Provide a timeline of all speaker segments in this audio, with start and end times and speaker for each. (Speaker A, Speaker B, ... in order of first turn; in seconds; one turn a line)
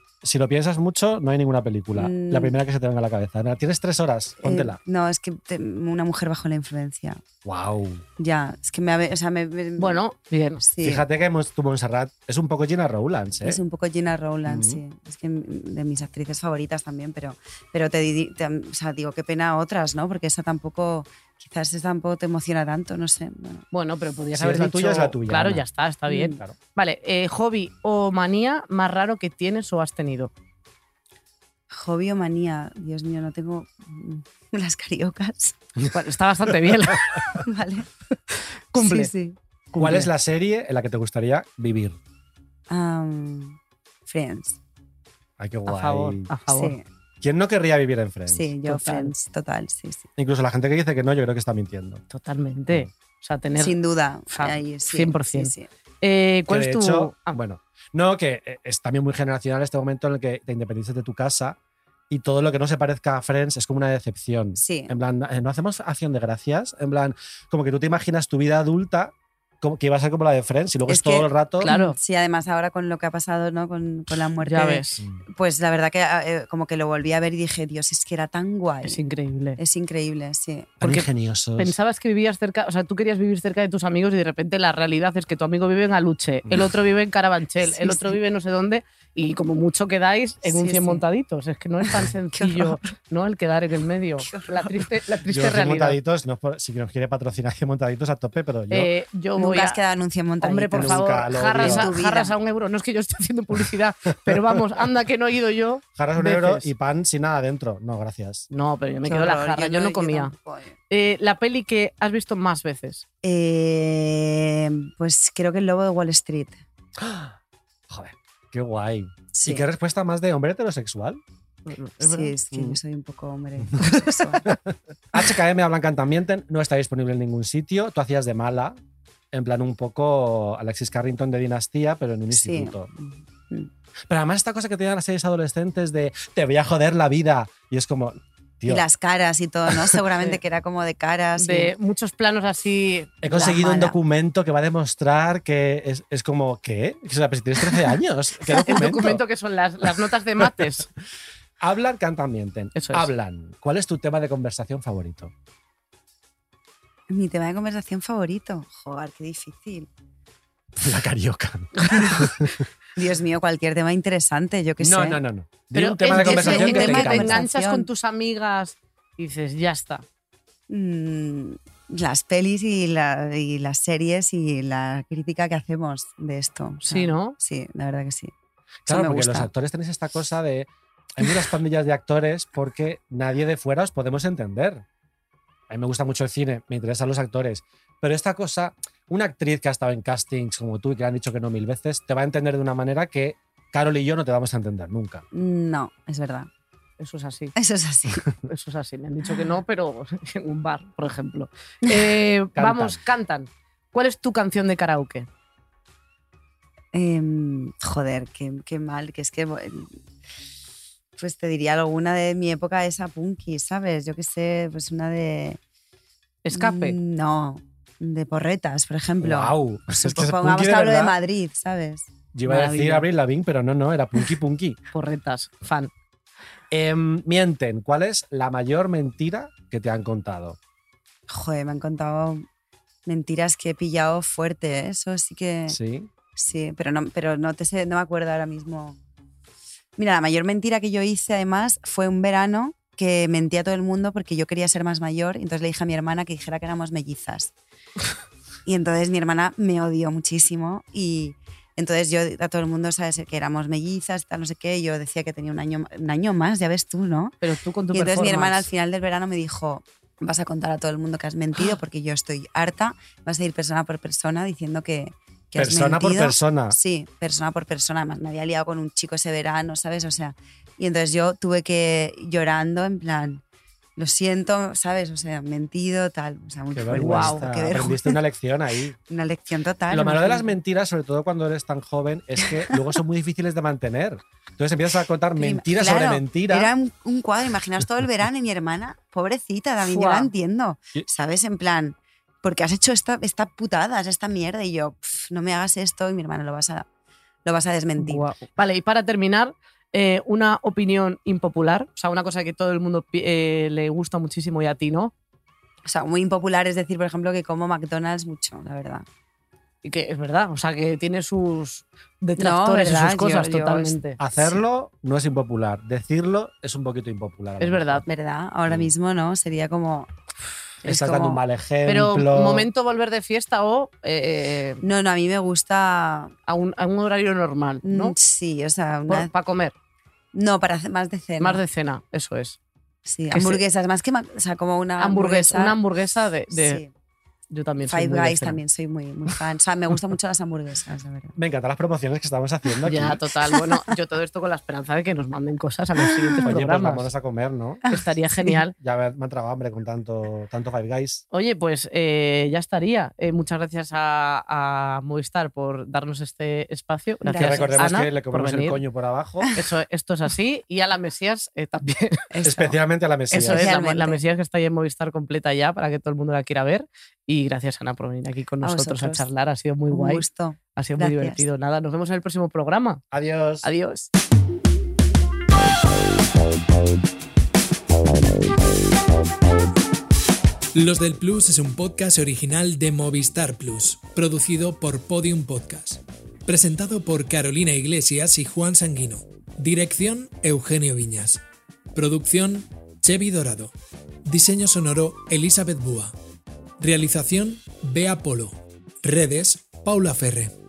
Speaker A: 0.2-4.8
Speaker B: 1.9-2.5
Speaker B: 4.4-7.2
Speaker A: 7.4-8.0
Speaker B: 8.2-10.0
Speaker C: 9.8-10.6
Speaker B: 10.6-11.0
Speaker A: 10.8-13.6
Speaker B: 13.4-23.6
Speaker A: 14.4-14.8
Speaker C: 23.7-30.3
Speaker A: 24.3-25.6
Speaker B: 26.1-26.4
Speaker B: 31.7-35.5
Speaker C: 35.9-37.2
Speaker A: 36.7-37.0
Speaker B: 37.4-37.9
Speaker C: 38.7-39.1
Speaker B: 38.7-39.4
Speaker C: 39.7-40.1
Speaker A: 39.7-42.0
Speaker B: 42.7-44.6
Speaker A: 45.4-46.3
Speaker C: 45.6-46.8
Speaker B: 46.5-46.8
Speaker A: 47.2-48.5
Speaker B: 48.3-50.0
Speaker C: 48.6-49.1
Speaker A: 50.2-52.0
Speaker C: 52.1-53.7
Speaker B: 53.5-55.7
Speaker C: 54.3-57.4
Speaker A: 56.5-61.6
Speaker A: 62.1-71.7
Speaker B: 64.5-64.9
Speaker B: 70.9-79.0
Speaker C: 71.6-72.0
Speaker C: 74.4-75.0
Speaker C: 78.8-79.6
Speaker B: 79.6-80.7
Speaker A: 80.8-81.8
Speaker C: 80.8-96.0
Speaker B: 87.6-88.2
Speaker B: 90.4-91.0
Speaker B: 92.0-92.8
Speaker B: 94.2-94.9
Speaker A: 95.3-98.9
Speaker C: 98.7-99.8
Speaker B: 99.3-102.3
Speaker C: 100.4-106.7
Speaker A: 100.8-101.9
Speaker A: 104.3-104.6
Speaker A: 106.0-108.4
Speaker C: 108.5-110.3
Speaker B: 109.0-110.7
Speaker C: 110.9-113.0
Speaker B: 113.2-116.6
Speaker A: 117.0-117.3
Speaker A: 117.9-121.2
Speaker B: 119.3-119.7
Speaker C: 121.7-122.4
Speaker B: 122.0-124.5
Speaker A: 123.7-128.8
Speaker A: 129.3-132.9
Speaker B: 132.3-133.7
Speaker A: 134.1-138.8
Speaker B: 138.7-141.7
Speaker C: 141.4-143.3
Speaker A: 143.2-149.2
Speaker B: 143.3-143.9
Speaker B: 148.4-148.8
Speaker C: 148.6-150.9
Speaker A: 150.4-150.7
Speaker A: 151.6-155.3
Speaker C: 152.7-153.1
Speaker B: 157.1-159.9
Speaker A: 160.8-162.6
Speaker C: 161.8-162.2
Speaker B: 162.9-165.2
Speaker A: 164.8-167.4
Speaker C: 165.7-170.0
Speaker B: 166.1-167.9
Speaker B: 170.7-178.3
Speaker C: 176.9-177.3
Speaker A: 178.8-184.8
Speaker B: 178.9-179.5
Speaker A: 185.7-195.2
Speaker B: 195.3-196.5
Speaker C: 197.0-197.5
Speaker B: 197.6-198.3
Speaker C: 198.4-205.3
Speaker A: 202.5-203.0
Speaker B: 206.9-209.9
Speaker B: 211.2-215.6
Speaker C: 216.4-217.0
Speaker B: 216.5-223.1
Speaker A: 219.2-221.2
Speaker A: 222.3-224.8
Speaker C: 224.9-225.9
Speaker A: 226.7-230.6
Speaker B: 231.3-232.4
Speaker B: 233.1-235.8
Speaker A: 235.7-236.1
Speaker B: 236.3-239.0
Speaker B: 240.0-247.5
Speaker B: 248.7-257.4
Speaker C: 257.4-258.7
Speaker B: 257.9-273.4
Speaker A: 265.6-266.8
Speaker B: 274.0-278.2
Speaker A: 276.8-279.0
Speaker C: 276.9-277.4
Speaker B: 279.1-280.5
Speaker A: 279.9-286.7
Speaker B: 285.4-296.9
Speaker C: 289.8-290.3
Speaker B: 297.4-298.3
Speaker C: 298.0-305.1
Speaker B: 305.9-309.0
Speaker C: 309.8-314.2
Speaker B: 312.4-314.6
Speaker A: 314.2-318.0
Speaker C: 317.6-318.0
Speaker B: 318.1-320.1
Speaker B: 320.8-321.4
Speaker A: 320.9-322.7
Speaker C: 321.9-324.8
Speaker B: 324.8-326.3
Speaker C: 326.5-328.1
Speaker B: 327.8-329.3
Speaker C: 329.1-329.7
Speaker B: 330.3-331.6
Speaker C: 331.4-332.6
Speaker B: 333.1-335.8
Speaker C: 333.3-333.6
Speaker C: 335.0-336.8
Speaker B: 336.5-336.9
Speaker C: 337.5-338.6
Speaker B: 337.8-341.4
Speaker A: 341.4-343.2
Speaker C: 342.8-347.1
Speaker B: 343.5-343.9
Speaker B: 346.1-346.6
Speaker A: 346.4-347.9
Speaker C: 347.9-348.7
Speaker A: 348.7-351.2
Speaker C: 351.3-358.8
Speaker B: 357.2-358.0
Speaker A: 357.4-359.5
Speaker C: 359.5-362.3
Speaker B: 362.3-362.8
Speaker A: 362.4-363.7
Speaker B: 363.3-364.2
Speaker C: 363.3-373.0
Speaker B: 368.6-369.3
Speaker B: 369.9-371.4
Speaker A: 373.1-373.7
Speaker C: 373.6-374.1
Speaker D: 380.7-391.4
Speaker D: 391.9-393.7
Speaker D: 394.2-396.1
Speaker D: 396.8-400.5